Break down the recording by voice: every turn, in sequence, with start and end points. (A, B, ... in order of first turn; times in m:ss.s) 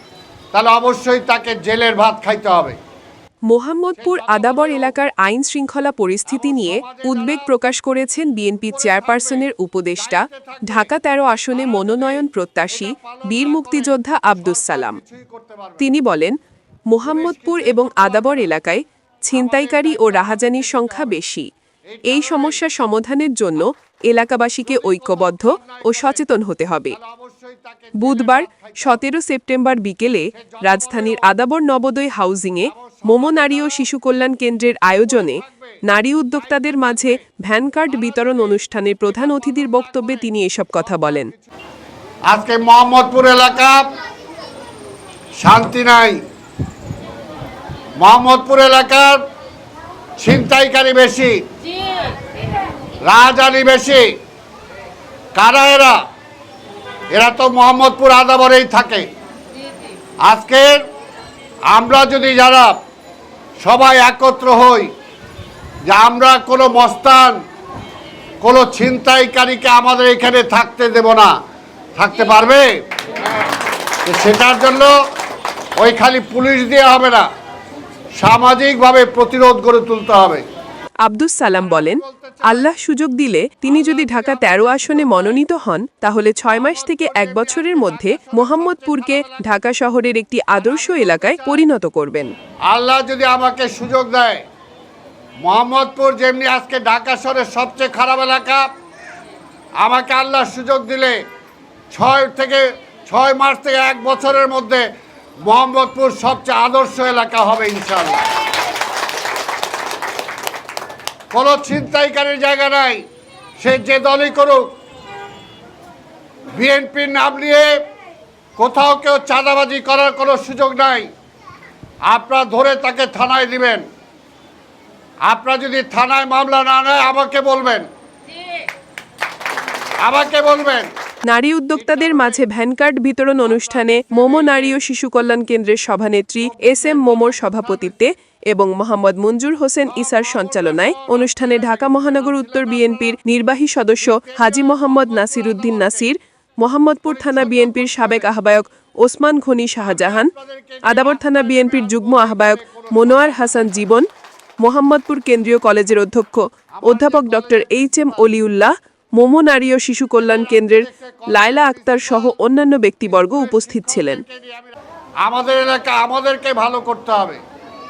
0:00.5-0:02.8 A
0:03.5-0:15.0 B
0:04.0-0:05.0 A
0:06.3-0:07.5 A
0:08.7-0:10.9 A
0:11.5-0:15.9 A
0:15.8-0:16.4 B
0:16.9-0:21.5 B
0:17.0-0:18.5 A
0:19.3-0:21.2 A
0:21.9-0:22.6 A
0:22.1-0:27.0 B
0:24.7-0:26.2 A
0:27.0-0:29.0 A
0:28.0-0:41.3 B
0:30.4-0:31.3 A
0:32.7-0:33.8 A
0:35.1-0:35.8 A
0:36.6-0:37.1 A
0:38.1-0:38.5 A
0:39.1-0:41.4 A
0:42.3-0:43.9 A
0:45.4-0:46.2 A
0:48.0-0:49.2 A
0:50.2-0:51.4 A
0:53.1-0:54.1 A
0:55.4-0:56.0 A
0:57.1-0:59.1 A
1:00.2-1:00.8 A
1:01.7-1:02.8 A
1:03.6-1:04.9 A
1:05.9-1:07.4 A
1:08.4-1:11.3 A
1:12.0-1:12.8 A
1:14.0-1:14.9 A
1:15.8-1:17.3 A
1:18.2-1:20.4 A
1:21.0-1:32.3 B
1:21.6-1:22.7 A
1:23.7-1:25.4 A
1:26.5-1:29.5 A
1:30.6-1:31.6 A
1:32.7-1:34.4 A
1:35.4-1:38.7 A
1:39.8-1:41.2 A
1:41.9-1:44.9 A
1:45.4-1:48.3 A
1:51.3-1:53.0 A
1:53.6-1:54.8 A
1:56.5-1:57.8 A
1:58.6-2:01.1 A
2:02.0-2:03.8 A
2:05.3-2:07.9 A
2:10.0-2:10.9 A
2:11.3-2:30.3 B
2:11.8-2:12.4 A
2:13.5-2:14.8 A
2:16.4-2:18.0 A
2:19.9-2:23.2 A
2:24.0-2:26.1 A
2:27.1-2:28.3 A
2:29.9-2:33.7 A
2:30.9-2:34.1 B
2:34.6-2:44.2 B
2:36.8-2:37.9 A
2:40.2-2:42.4 A
2:43.1-2:47.4 A